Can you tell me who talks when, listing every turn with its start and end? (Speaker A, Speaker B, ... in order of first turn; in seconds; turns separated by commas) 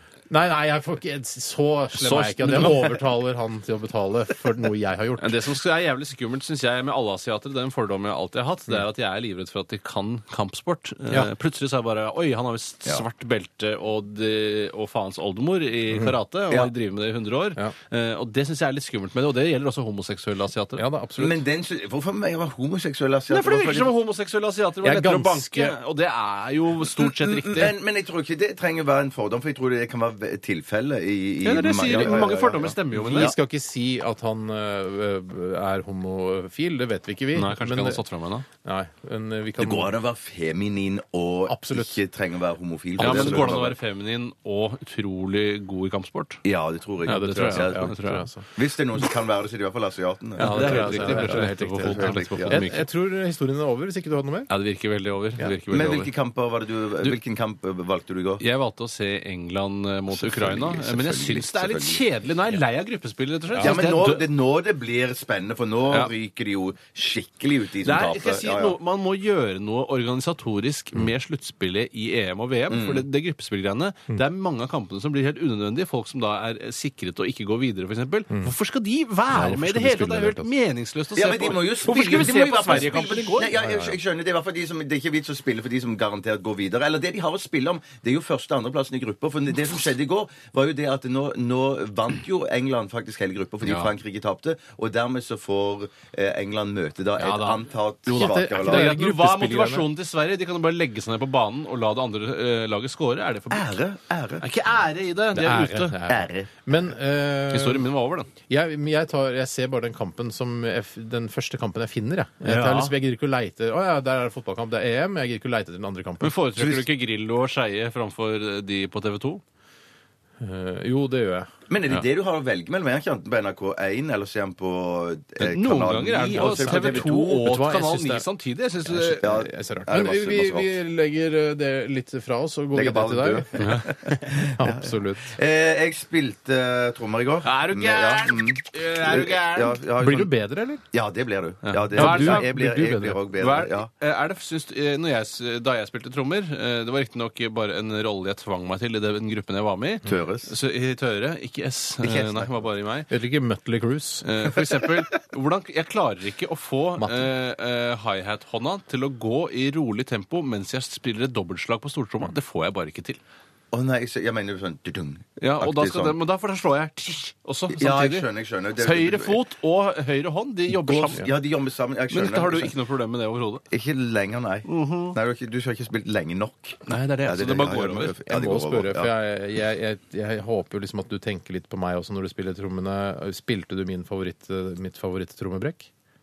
Speaker A: 0.3-5.4, Speaker B: 1.9-3.0, Speaker B: 5.2-20.8, Speaker A: 20.8-21.4, Speaker C: 21.2-23.9, Speaker B: 23.3-27.8, Speaker A: 24.8-25.8, Speaker C: 27.0-33.4, Speaker B: 31.4-33.3, Speaker A: 31.9-32.4, Speaker A: 32.9-38.0, Speaker B: 37.4-38.5, Speaker A: 38.6-39.9, Speaker C: 39.6-43.8, Speaker A: 41.5-42.0, Speaker B: 43.0-46.4, Speaker A: 43.0-43.4, Speaker C: 46.5-47.9, Speaker A: 47.1-48.5, Speaker B: 47.1-48.3, Speaker C: 48.5-52.7, Speaker B: 50.4-52.9, Speaker A: 50.4-54.5, Speaker B: 54.5-56.1, Speaker C: 55.7-58.4, Speaker B: 58.4-64.3, Speaker C: 60.1-62.1, Speaker A: 63.5-63.8, Speaker C: 63.6-68.8, Speaker B: 67.8-83.5, Speaker C: 72.7-73.0, Speaker A: 79.3-80.5, Speaker C: 81.2-98.9, Speaker A: 83.6-84.0, Speaker B: 93.6-93.9, Speaker B: 97.2-103.7, Speaker A: 98.1-99.9, Speaker C: 103.5-104.5, Speaker B: 104.4-106.0, Speaker A: 105.3-107.9, Speaker C: 106.1-106.5, Speaker B: 107.5-108.3, Speaker A: 108.5-116.7, Speaker B: 112.4-112.9, Speaker B: 116.2-119.4, Speaker A: 120.4-121.5, Speaker C: 121.7-127.5, Speaker B: 125.4-129.2, Speaker A: 126.3-128.2, Speaker A: 128.8-135.3, Speaker C: 129.2-130.8, Speaker C: 132.7-140.3, Speaker B: 133.6-133.8, Speaker B: 137.4-139.8, Speaker A: 140.0-140.8, Speaker C: 140.9-143.9, Speaker B: 141.6-142.7, Speaker A: 141.9-143.2, Speaker B: 143.3-153.1, Speaker C: 150.1-150.5, Speaker C: 152.0-152.5, Speaker A: 153.1-154.3, Speaker B: 154.2-163.2, Speaker A: 157.0-157.3, Speaker C: 163.7-166.2, Speaker B: 165.4-171.3, Speaker C: 167.7-169.4, Speaker C: 170.7-172.8, Speaker B: 172.1-173.6, Speaker C: 173.7-179.1, Speaker B: 174.7-175.2, Speaker B: 176.8-178.2, Speaker A: 178.3-185.9